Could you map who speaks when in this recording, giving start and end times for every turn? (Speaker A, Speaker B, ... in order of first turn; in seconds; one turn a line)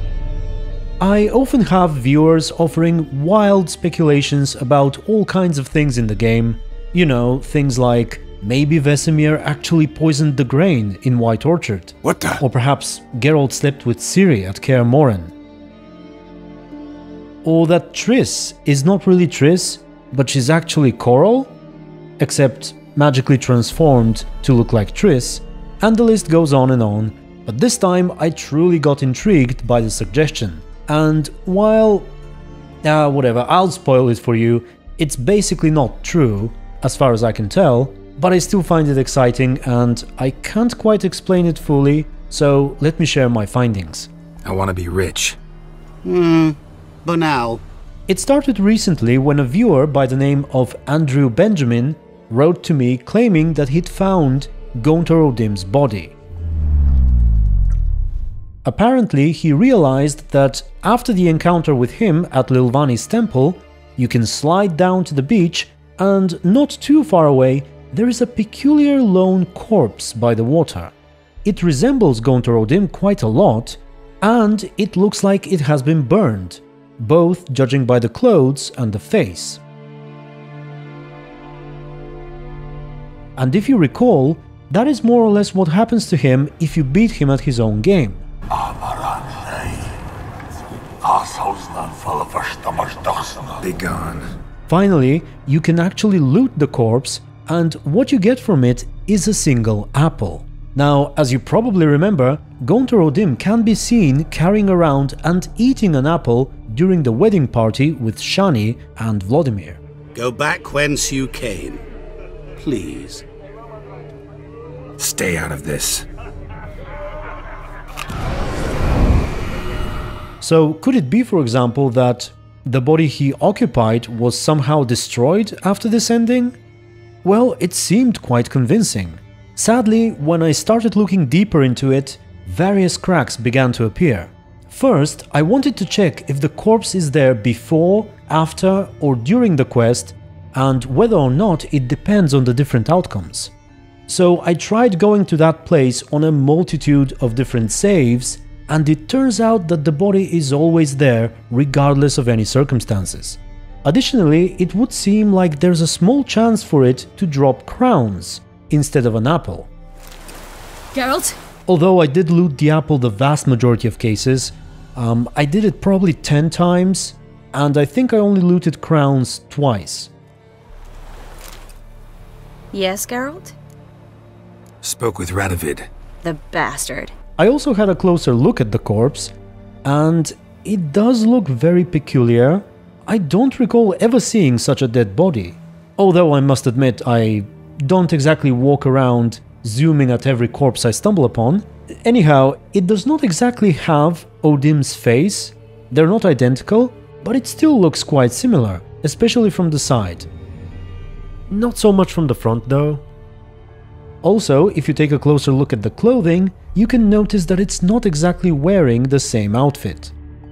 Speaker A: 1.0-15.3
Speaker B: 12.0-12.4
Speaker A: 17.4-21.5
Speaker A: 22.2-32.1
Speaker A: 32.8-44.1
Speaker B: 44.4-45.4
Speaker C: 46.0-47.6
Speaker A: 48.1-56.1
Speaker A: 58.6-70.9
Speaker A: 71.4-79.6
Speaker A: 83.3-88.2
Speaker B: 88.5-89.9
Speaker B: 91.0-94.3
Speaker A: 94.7-109.8
Speaker C: 110.1-111.8
Speaker C: 112.6-113.2
Speaker B: 115.0-116.0
Speaker A: 120.4-126.5
Speaker A: 127.2-143.5
Speaker A: 144.1-159.7
Speaker D: 160.9-161.3
Speaker A: 161.7-170.1
Speaker D: 172.7-173.5
Speaker B: 174.8-175.9
Speaker D: 176.2-177.1
Speaker A: 177.4-179.3
Speaker A: 179.8-200.3
Speaker A: 201.5-203.0
Speaker A: 204.2-210.1